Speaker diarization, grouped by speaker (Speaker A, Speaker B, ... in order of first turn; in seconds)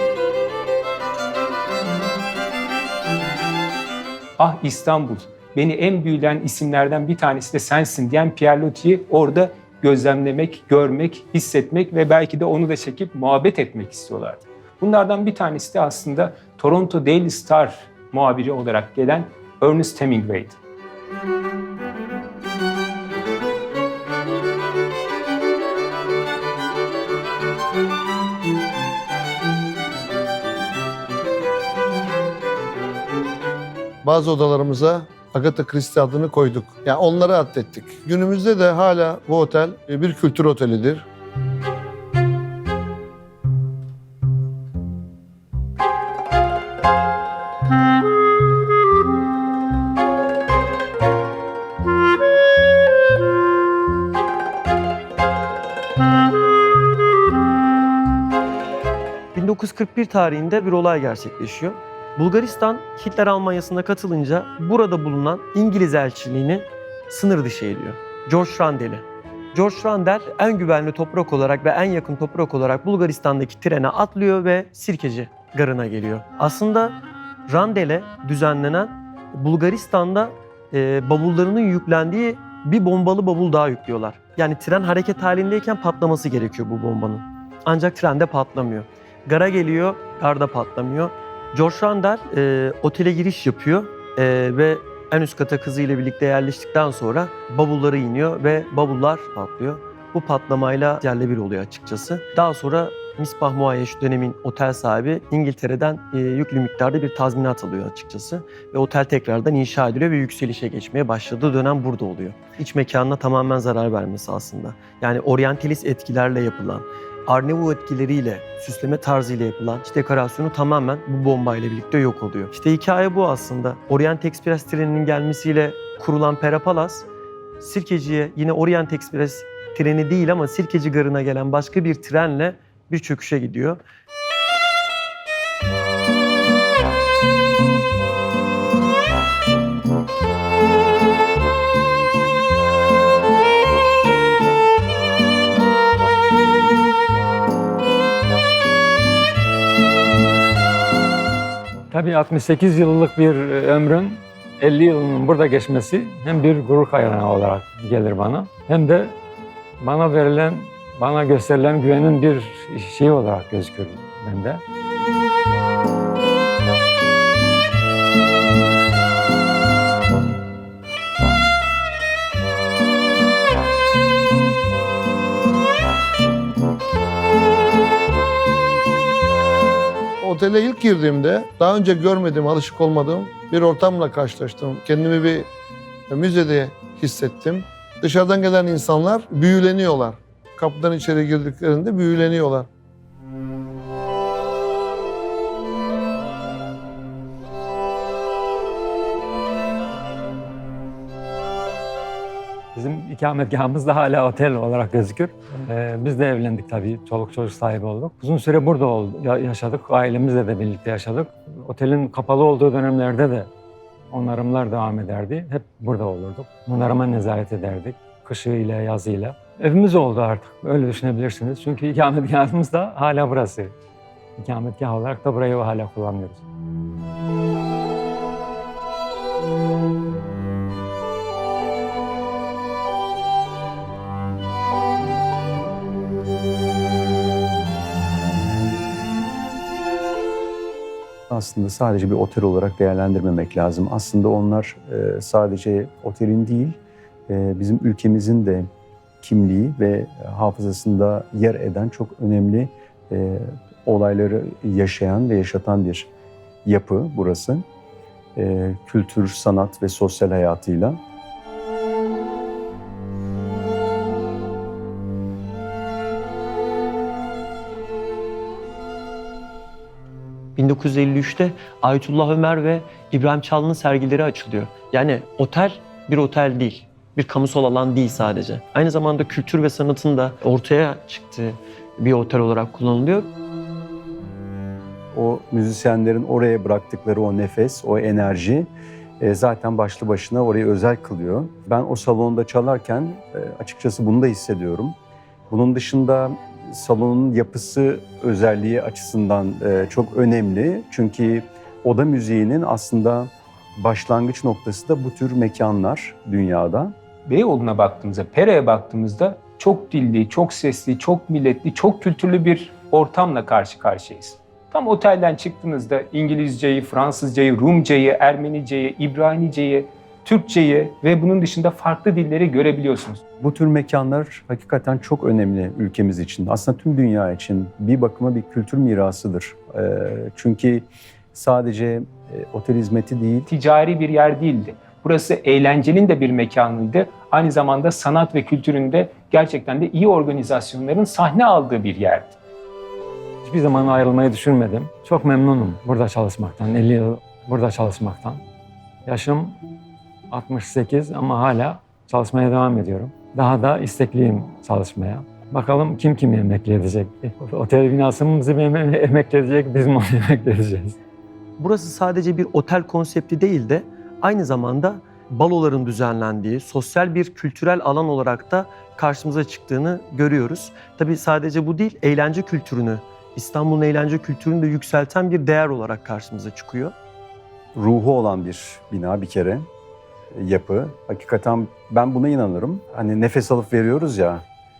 Speaker A: 4.4-20.6, 307.3-323.2, 333.5-342.4
Speaker B: 34.0-41.0, 180.2-185.5, 186.1-192.7
Speaker C: 59.3-127.1, 127.6-133.8, 270.6-283.3, 361.6-376.9
Speaker D: 151.9-159.2, 159.8-164.6, 202.7-213.5, 214.1-223.7, 224.4-226.4, 343.4-348.4, 349.0-349.6, 350.3-360.9
Speaker E: 241.3-248.7, 249.2-256.1, 256.6-257.6, 258.4-261.0, 285.1-288.7, 289.2-294.9, 295.5-306.9, 323.4-333.5, 377.7-379.7, 380.3-384.4